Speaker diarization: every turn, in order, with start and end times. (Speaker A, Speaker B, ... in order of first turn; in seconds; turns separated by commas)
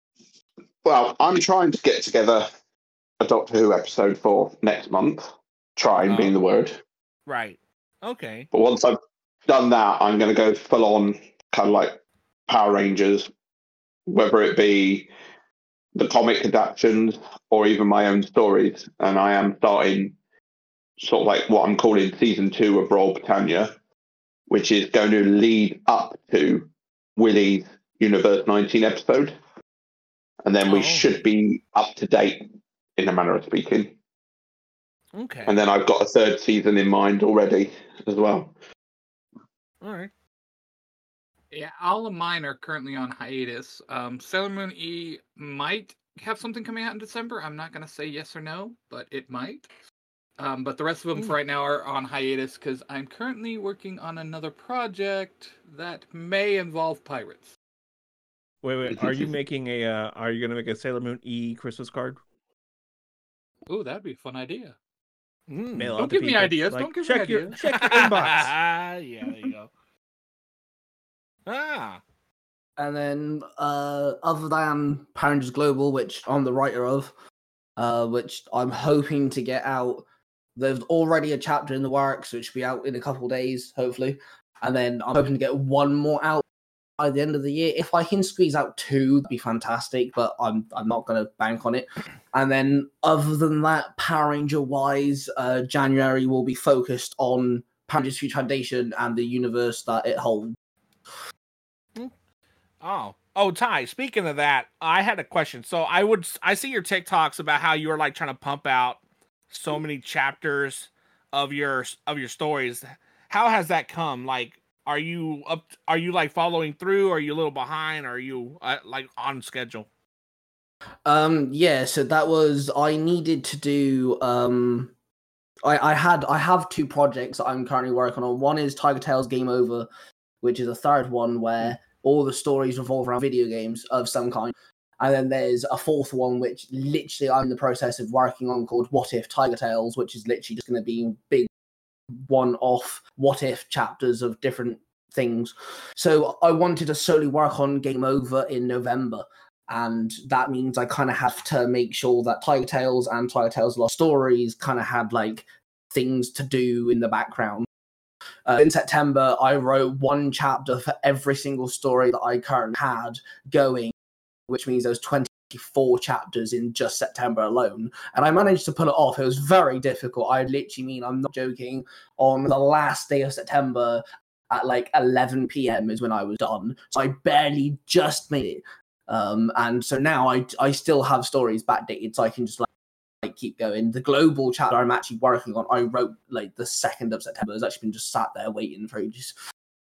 Speaker A: 0.8-2.5, Speaker A: 3.2-6.8, Speaker B: 6.0-6.3, Speaker B: 7.2-8.5, Speaker A: 8.5-11.9, Speaker A: 12.5-13.3, Speaker A: 14.1-15.1, Speaker A: 15.9-20.1, Speaker A: 21.0-23.7, Speaker A: 24.5-29.4, Speaker A: 30.4-32.4, Speaker B: 30.6-31.1, Speaker A: 33.0-33.9, Speaker B: 35.1-35.5, Speaker A: 35.5-38.5, Speaker B: 39.8-40.1, Speaker C: 41.5-49.7, Speaker C: 50.4-57.5, Speaker D: 58.6-62.2, Speaker A: 58.9-59.3, Speaker C: 63.7-64.7, Speaker B: 65.5-65.9, Speaker D: 65.8-68.5, Speaker C: 66.0-67.6, Speaker B: 67.7-69.7, Speaker B: 71.5-72.0, Speaker E: 72.8-77.1, Speaker E: 77.8-80.0, Speaker E: 80.5-86.4, Speaker E: 87.0-100.5, Speaker B: 102.8-119.9, Speaker E: 121.0-124.9, Speaker E: 125.6-129.9, Speaker E: 130.4-141.5, Speaker E: 142.2-157.7, Speaker E: 158.5-163.9, Speaker E: 164.5-182.7, Speaker E: 183.2-189.3